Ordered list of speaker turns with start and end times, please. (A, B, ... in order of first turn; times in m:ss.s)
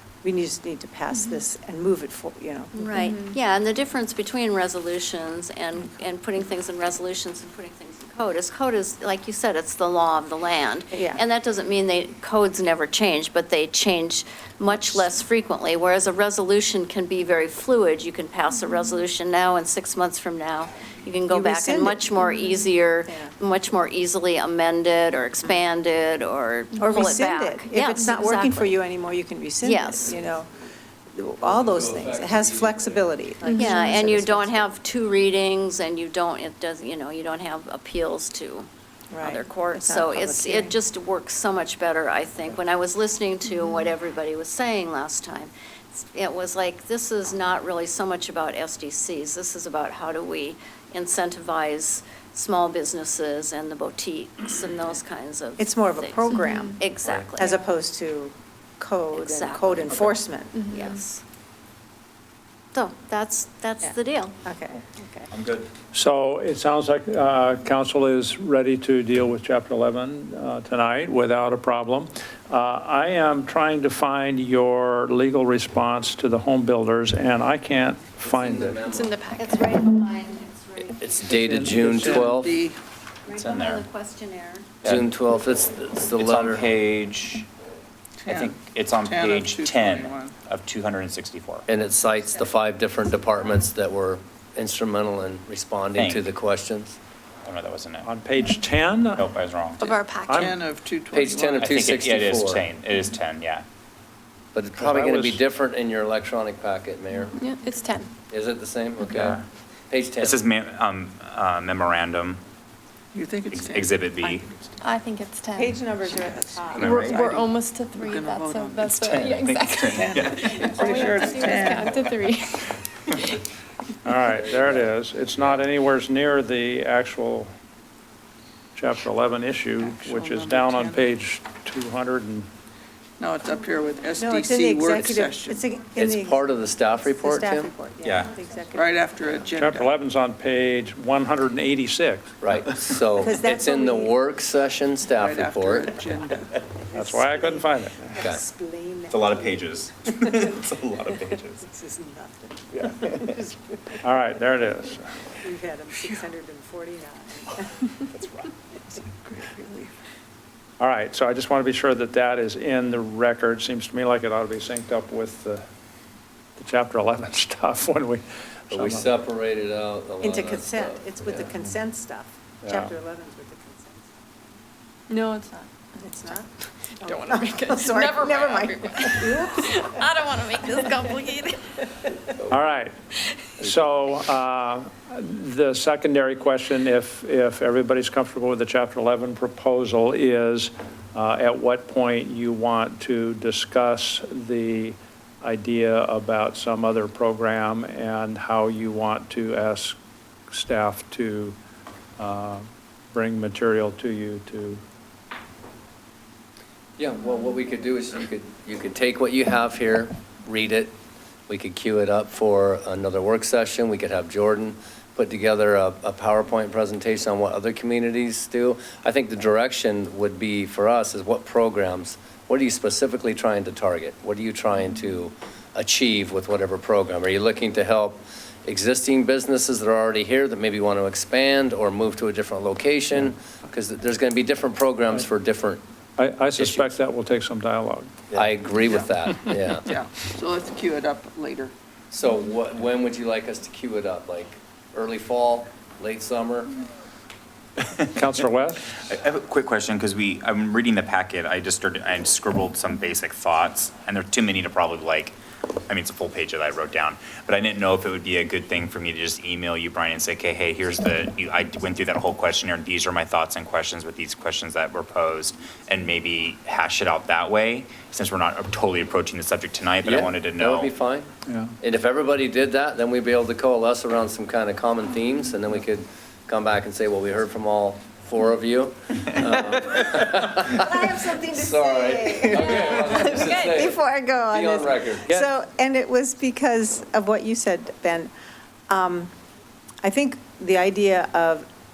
0:00.2-0:03.2 A
0:02.7-0:28.8 B
0:03.0-0:03.4 C
0:10.9-0:11.2 A
0:21.3-0:22.1 A
0:23.0-0:23.3 A
0:26.7-0:27.2 C
0:26.8-0:30.5 A
0:29.6-0:30.1 B
0:31.1-0:34.7 A
0:31.4-0:33.1 D
0:33.4-0:34.0 C
0:33.5-0:38.7 B
0:39.1-0:40.8 A
0:39.2-0:57.6 B
0:43.5-0:43.8 C
0:55.6-0:56.8 A
0:56.3-0:56.7 C
0:57.4-1:00.8 A
0:59.1-1:00.1 B
1:00.6-1:01.0 C
1:00.7-1:01.2 B
1:02.7-1:04.4 B
1:03.8-1:05.3 A
1:05.3-1:05.7 E
1:05.9-1:18.8 F
1:18.2-1:19.2 D
1:18.8-1:19.7 C
1:19.4-1:21.7 B
1:21.0-1:22.6 D
1:21.5-1:22.4 F
1:21.6-1:22.8 G
1:23.3-1:24.7 B
1:23.3-1:23.8 E
1:24.8-1:26.7 D
1:26.2-1:27.5 E
1:28.2-1:30.3 G
1:28.2-1:31.6 E
1:31.7-1:37.0 D
1:35.9-1:36.3 E
1:37.4-1:38.1 E
1:38.0-1:39.2 F
1:39.1-1:40.0 E
1:39.8-1:40.5 C
1:40.2-1:40.6 F
1:40.4-1:41.6 G
1:41.1-1:42.6 D
1:41.6-1:43.6 E
1:44.5-1:47.3 D
1:44.8-1:45.4 F
1:47.3-1:48.1 C
1:48.3-1:50.4 D
1:49.1-1:49.4 E
1:50.2-1:52.4 E
1:53.1-1:54.0 G
1:53.5-1:54.5 E
1:54.8-1:55.8 C
1:55.5-1:57.4 A
1:56.0-1:56.3 G
1:56.7-1:57.4 E
1:56.8-2:02.7 C
1:58.0-1:58.9 G
1:58.9-2:00.9 E
1:59.9-2:02.0 G
2:00.6-2:01.7 A
2:04.0-2:07.5 F
2:08.7-2:12.5 F
2:09.8-2:11.0 G
2:13.2-2:15.6 G
2:14.2-2:19.5 A
2:16.0-2:17.7 D
2:18.0-2:18.3 E
2:18.7-2:19.9 G
2:19.5-2:22.3 F
2:22.4-2:25.9 D
2:23.2-2:24.2 A
2:25.2-2:26.5 G
2:26.9-2:28.2 F
2:26.9-2:33.9 A
2:28.2-2:28.4 D
2:29.1-2:31.6 E
2:32.9-2:33.2 E
2:34.0-2:35.0 F
2:35.4-2:37.7 A
2:39.1-2:39.9 G
2:40.8-2:45.6 F
2:46.6-2:49.0 F
2:48.7-2:51.5 D
2:50.2-2:54.2 A
2:52.6-2:52.9 F
2:55.1-2:55.7 C
2:56.0-2:56.5 A
2:57.0-2:59.9 A
2:57.0-3:01.6 C
3:02.5-3:02.9 F
3:03.6-3:20.0 F
3:20.5-3:21.6 F
3:22.2-3:24.8 F
3:27.0-3:30.9 D
3:31.5-3:55.8 D
3:56.2-3:58.1 F
3:56.6-3:56.9 D
3:58.3-3:59.8 D
3:59.8-4:01.7 G
4:02.1-4:06.7 D
4:08.1-4:08.9 F
4:08.9-4:15.4 E
4:15.9-4:30.9 E
4:30.0-4:31.3 D
4:31.5-4:31.7 F
4:31.8-4:45.5 D
4:40.7-4:48.3 A
4:48.9-4:49.3 A
4:50.0-4:51.7 A